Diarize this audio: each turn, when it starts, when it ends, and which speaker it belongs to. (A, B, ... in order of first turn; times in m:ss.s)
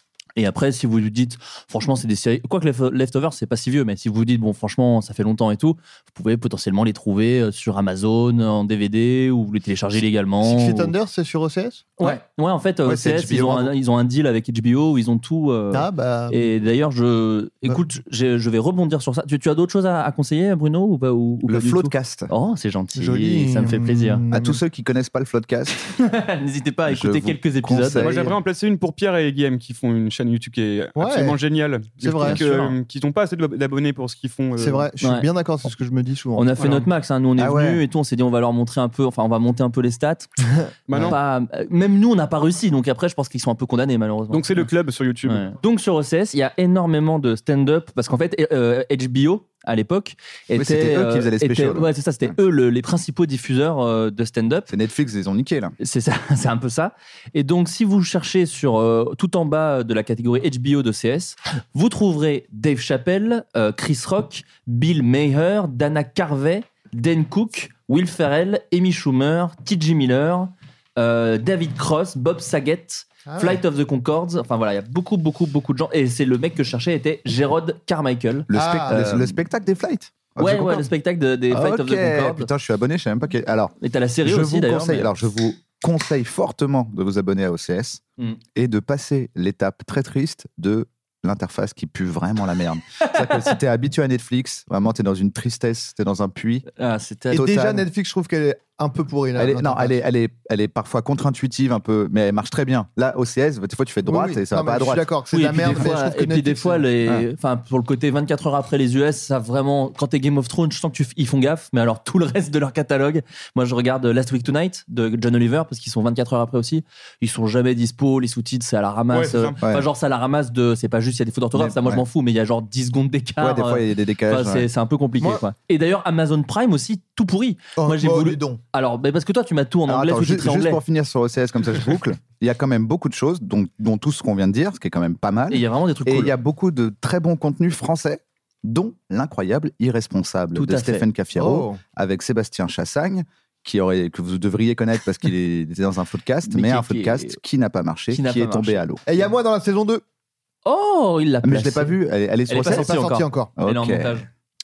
0:00.4-0:10.9 A
0:10.4-0:11.9 B
0:12.0-0:24.2 A
0:12.8-0:13.7 C
0:15.7-0:16.5 B
0:21.5-0:22.3 C
0:23.0-0:24.6 B
0:24.3-0:25.9 C
0:26.0-0:28.3 A
0:26.9-0:28.3 C
0:28.0-0:34.9 D
0:31.0-0:31.4 B
0:32.0-0:32.4 B
0:32.2-0:32.7 A
0:34.6-0:36.5 B
0:35.0-0:35.3 A
0:36.4-0:40.3 A
0:37.4-0:37.8 C
0:40.7-0:41.2 B
0:40.9-0:41.2 D
0:41.0-0:44.6 A
0:44.3-0:45.5 D
0:45.3-0:54.7 A
0:50.5-0:52.4 C
0:54.7-0:55.7 C
0:55.8-1:19.4 A
1:13.3-1:13.6 B
1:18.5-1:20.9 C
1:18.5-1:19.0 B
1:20.4-1:22.5 A
1:21.5-1:28.0 C
1:23.8-1:25.1 A
1:28.5-1:36.6 C
1:36.8-1:37.4 A
1:37.3-1:37.9 C
1:37.3-1:40.0 B
1:39.4-1:45.1 C
1:44.0-1:46.9 B
1:45.3-2:10.8 A
1:59.1-1:59.6 D
1:59.6-1:59.9 C
2:01.5-2:02.0 C
2:03.4-2:04.7 C
2:07.8-2:08.6 B
2:09.9-2:29.0 C
2:15.5-2:16.3 A
2:20.5-2:21.1 A
2:21.4-2:21.8 B
2:26.5-2:27.4 A
2:28.1-2:28.9 A
2:29.0-2:30.0 B
2:30.6-2:32.0 A
2:31.4-2:33.0 C
2:32.5-2:34.3 A
2:32.6-2:33.5 B
2:33.6-2:34.2 C